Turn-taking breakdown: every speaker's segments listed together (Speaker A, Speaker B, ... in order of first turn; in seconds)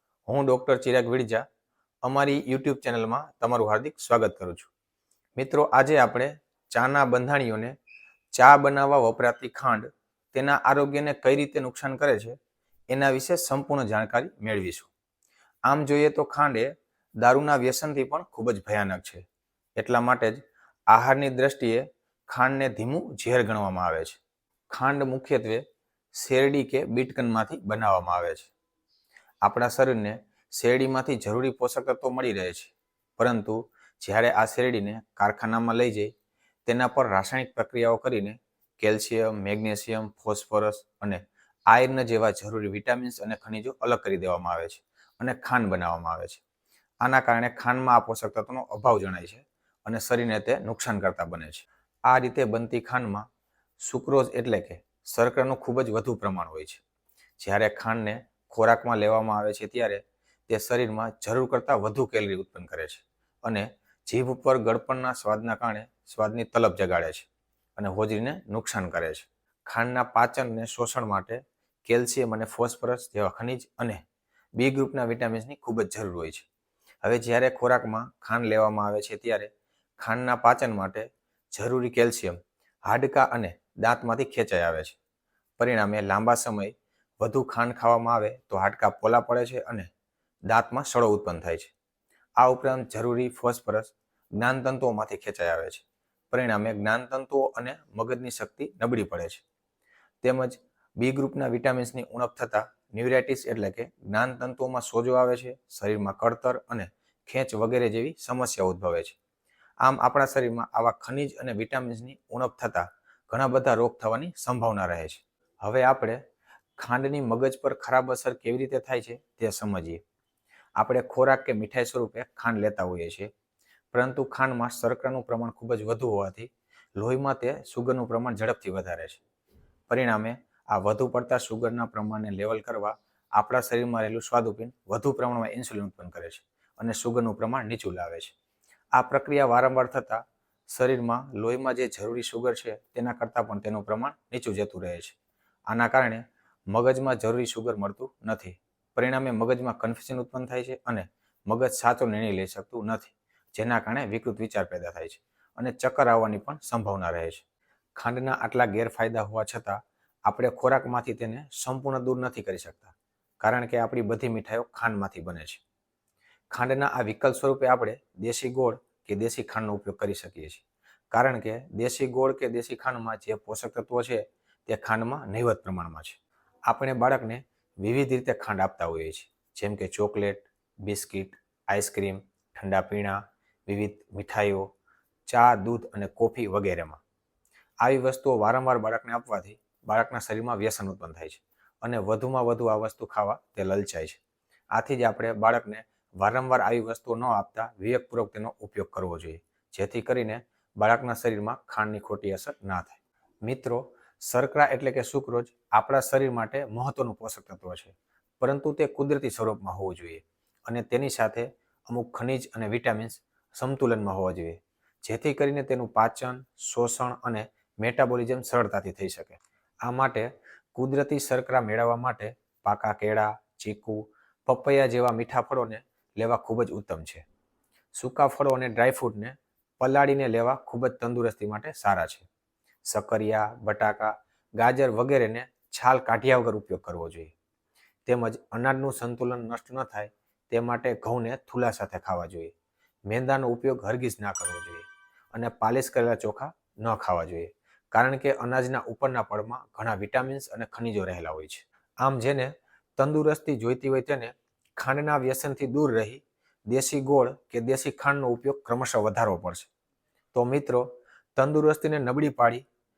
Speaker A: 0.3-1.4, 2.0-4.7, 5.3-7.7, 8.3-12.4, 12.9-14.9, 15.7-19.2, 19.8-24.2, 24.7-25.6, 26.1-28.5, 29.4-36.1, 36.6-46.4, 47.0-53.2, 53.8-56.8, 57.4-74.0, 74.6-76.5, 77.0-85.0, 85.6-89.9, 90.5-91.7, 92.4-99.4, 100.2-109.2, 109.8-116.2, 116.8-120.0, 120.8-123.3, 123.9-129.2, 129.9-138.3, 138.9-145.2, 145.7-157.4, 157.9-165.6, 166.5-184.7, 185.3-187.0, 187.8-194.2, 194.7-227.2, 227.9-232.3, 232.8-237.3, 238.1-242.5, 243.1-259.7, 260.3-262.6